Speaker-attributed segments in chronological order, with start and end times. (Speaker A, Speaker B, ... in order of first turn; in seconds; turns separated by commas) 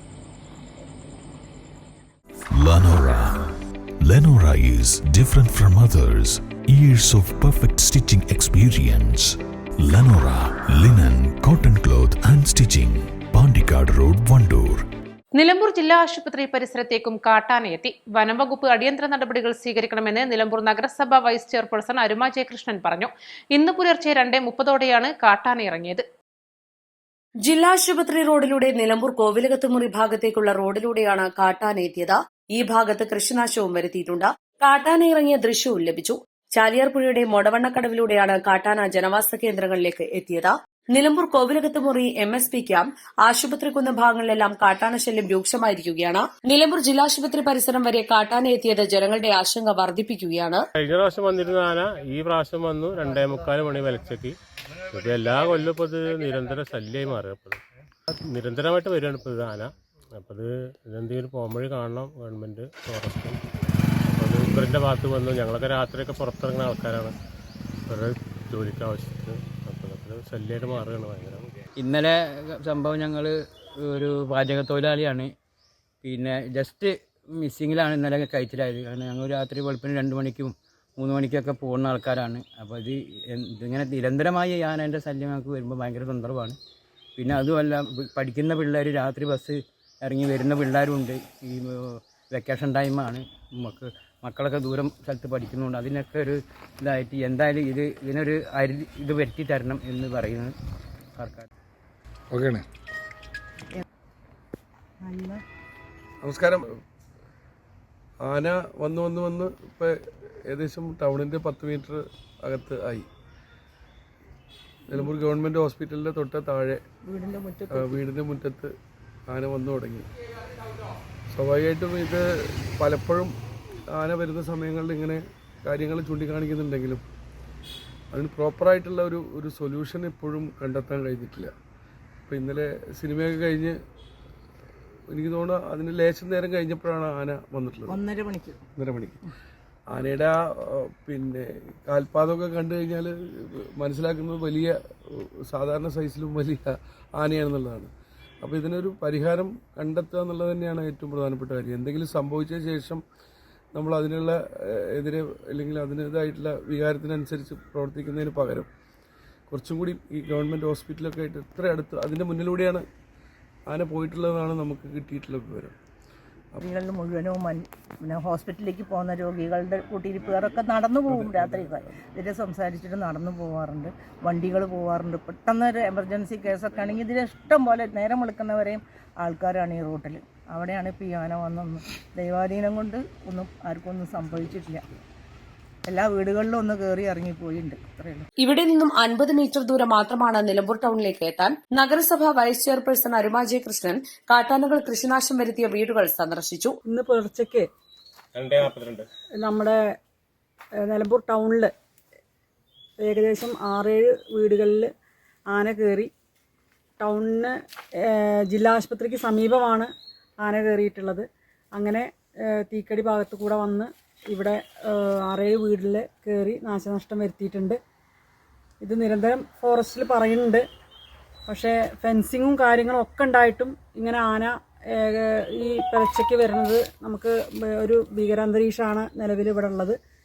Speaker A: 2.5-3.5, Speaker A: 4.0-14.8, Speaker B: 15.4-26.0, Speaker C: 27.4-50.6, Speaker D: 50.8-54.4, Speaker D: 54.9-57.6, Speaker D: 58.3-63.4, Speaker D: 64.1-67.1, Speaker D: 67.9-71.5, Speaker E: 71.8-75.3, Speaker E: 76.0-86.6, Speaker E: 87.2-100.5, Speaker E: 101.2-101.5, Speaker F: 106.2-106.7, Speaker F: 108.2-109.9, Speaker F: 110.5-113.1, Speaker F: 114.9-116.8, Speaker F: 117.7-118.7, Speaker F: 119.3-120.1, Speaker F: 121.3-122.2, Speaker F: 122.8-123.3, Speaker F: 123.9-127.0, Speaker F: 128.1-131.5, Speaker F: 132.3-133.8, Speaker F: 135.1-138.0, Speaker G: 138.2-138.5, Speaker F: 138.8-139.2, Speaker F: 139.9-144.7, Speaker F: 145.5-147.9, Speaker F: 148.4-153.0, Speaker F: 153.7-158.7, Speaker F: 159.5-162.8, Speaker F: 163.7-165.8, Speaker G: 166.6-184.8, Speaker F: 171.1-171.8, Speaker G: 185.8-188.3, Speaker C: 188.4-196.7, Speaker H: 196.8-197.7, Speaker D: 198.3-199.1, Speaker H: 199.4-199.8, Speaker H: 200.8-201.7, Speaker H: 203.0-204.9, Speaker H: 205.5-206.1, Speaker H: 207.0-217.8, Speaker H: 218.8-220.6, Speaker H: 221.5-230.0